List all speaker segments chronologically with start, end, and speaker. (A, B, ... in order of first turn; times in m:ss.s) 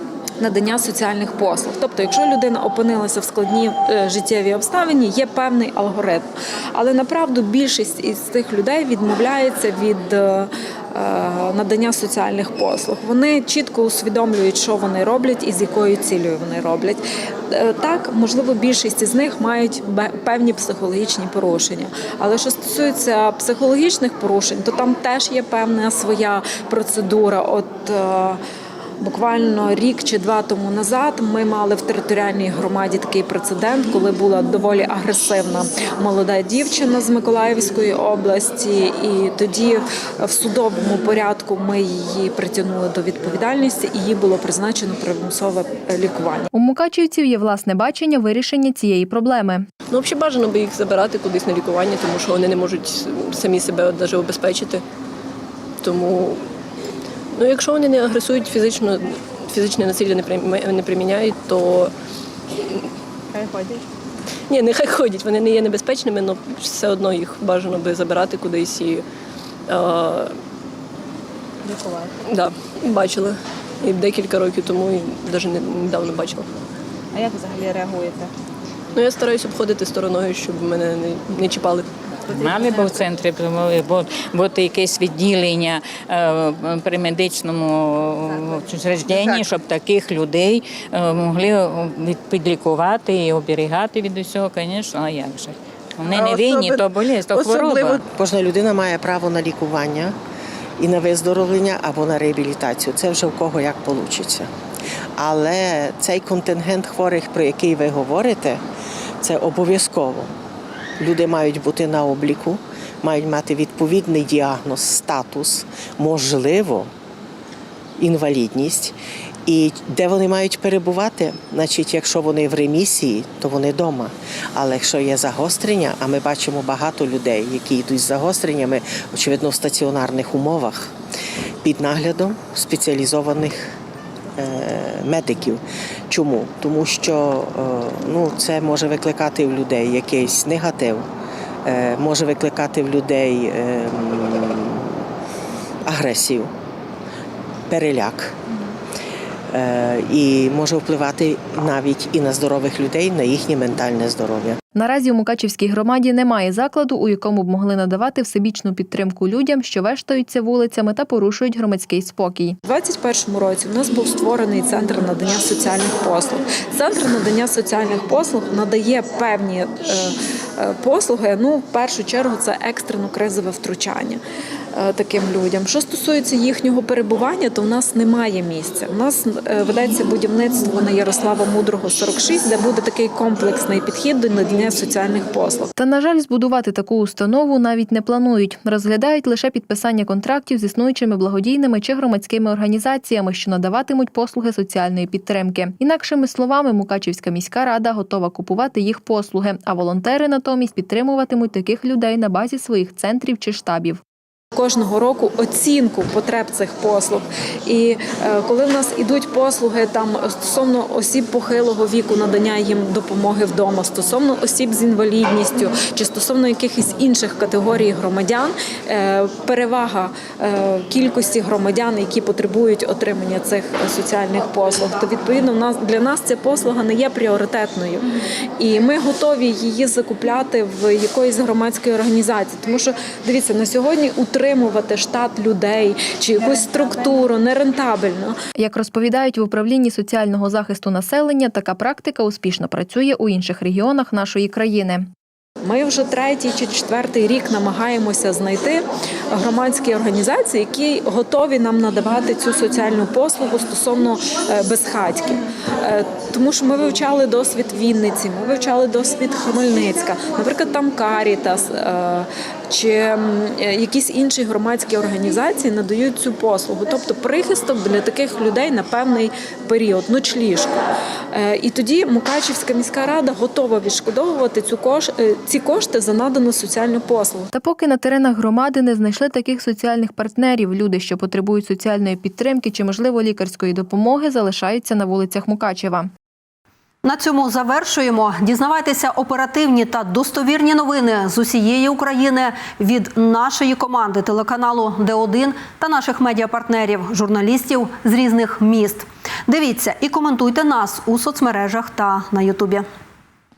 0:00.4-0:28.4 A
0:29.0-0:46.5 A
0:46.5-0:49.6 B
0:49.9-0:54.8 C
0:55.8-0:56.4 C
0:57.3-1:01.9 C
1:03.3-1:03.8 D
1:04.5-1:09.0 C
1:09.7-1:10.4 C
1:11.6-1:12.1 D
1:12.2-1:16.5 C
1:17.1-1:18.3 D
1:18.9-1:21.8 C
1:22.3-1:38.0 E
1:22.3-1:23.0 D
1:38.0-1:40.1 F
1:40.8-1:44.5 F
1:45.2-1:48.6 F
1:49.2-1:50.3 F
1:51.0-1:56.9 F
1:58.0-1:58.9 F
1:59.4-2:10.9 F
2:11.6-2:13.7 F
2:14.4-2:21.0 F
2:21.6-2:25.0 F
2:25.8-2:26.5 F
2:27.7-2:28.4 F
2:29.5-2:34.6 F
2:34.7-2:42.6 B
2:42.6-2:54.2 A
2:54.7-3:05.7 A
3:05.8-3:24.0 B
3:24.5-3:58.4 A
3:58.6-4:05.1 B
4:05.6-4:30.8 A
4:31.3-4:37.5 A
4:37.5-4:46.1 B
4:47.0-5:02.8 G